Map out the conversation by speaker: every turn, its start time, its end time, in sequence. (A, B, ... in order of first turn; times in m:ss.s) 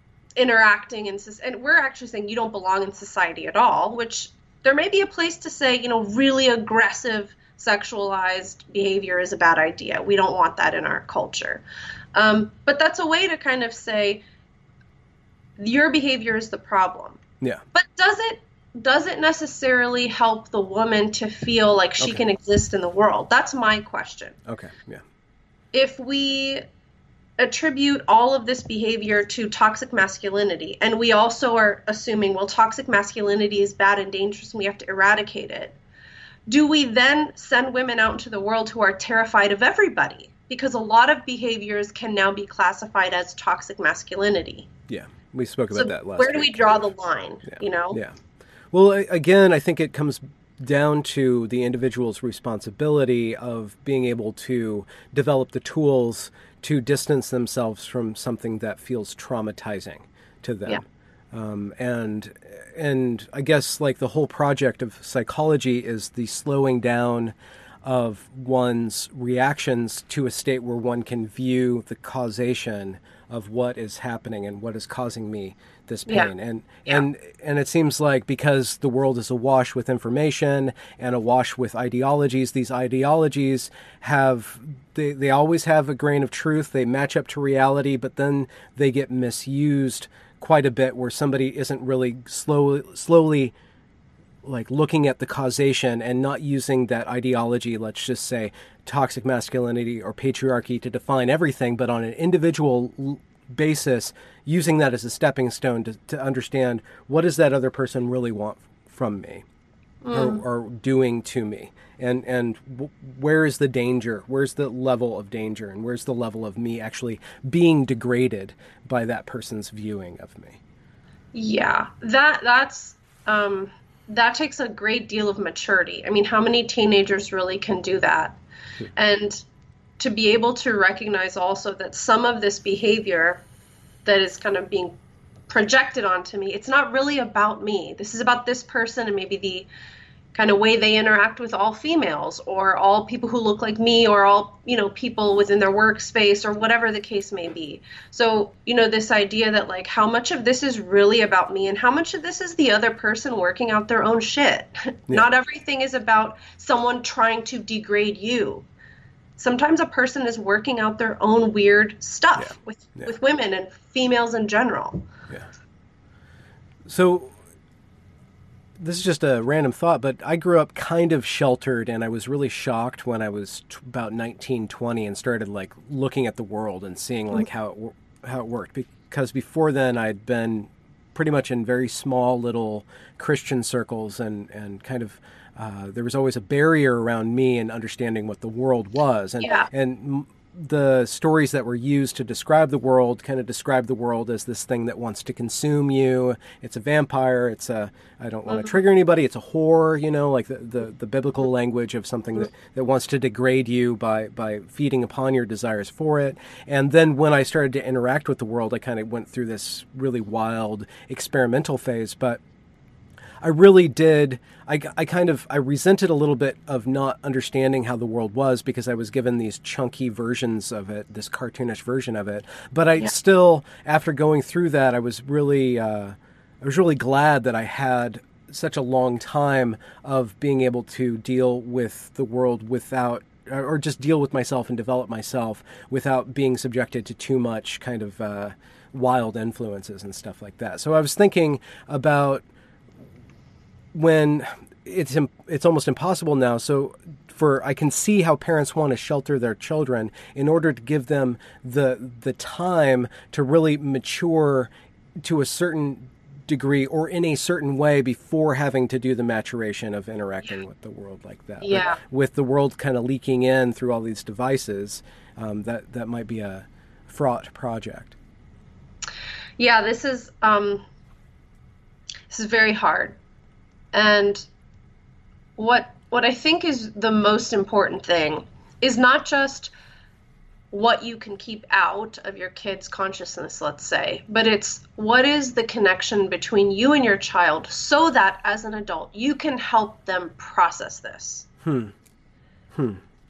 0:00.4-0:11.6 A
0:12.2-0:14.2 A
0:15.6-0:17.2 A
0:17.7-0:24.4 A
0:24.5-0:25.0 B
0:25.7-0:26.6 A
0:27.4-0:35.8 A
0:36.5-0:44.7 A
0:44.9-0:46.8 B
0:45.7-0:48.0 A
0:47.5-0:48.2 B
0:48.7-1:33.5 B
1:34.4-1:49.4 B
1:50.0-1:50.4 A
1:50.1-2:00.6 B
2:01.3-2:08.4 A
2:09.0-2:09.4 A
2:10.0-2:13.4 A
2:14.0-2:15.0 A
2:15.5-2:19.7 A
2:20.3-2:38.7 A
2:39.4-2:45.0 A
2:42.4-2:43.1 B
2:46.9-2:47.4 B
2:48.8-3:32.4 B
3:09.4-3:09.7 A
3:18.5-3:18.8 A
3:33.4-4:02.4 B
4:03.9-4:28.2 B
4:21.6-4:22.0 A
4:29.6-4:30.8 A
4:32.3-4:33.2 A
4:33.9-4:34.5 A
4:35.6-4:39.7 A
4:40.7-4:51.5 A
4:51.6-4:51.9 B
4:52.7-4:53.0 B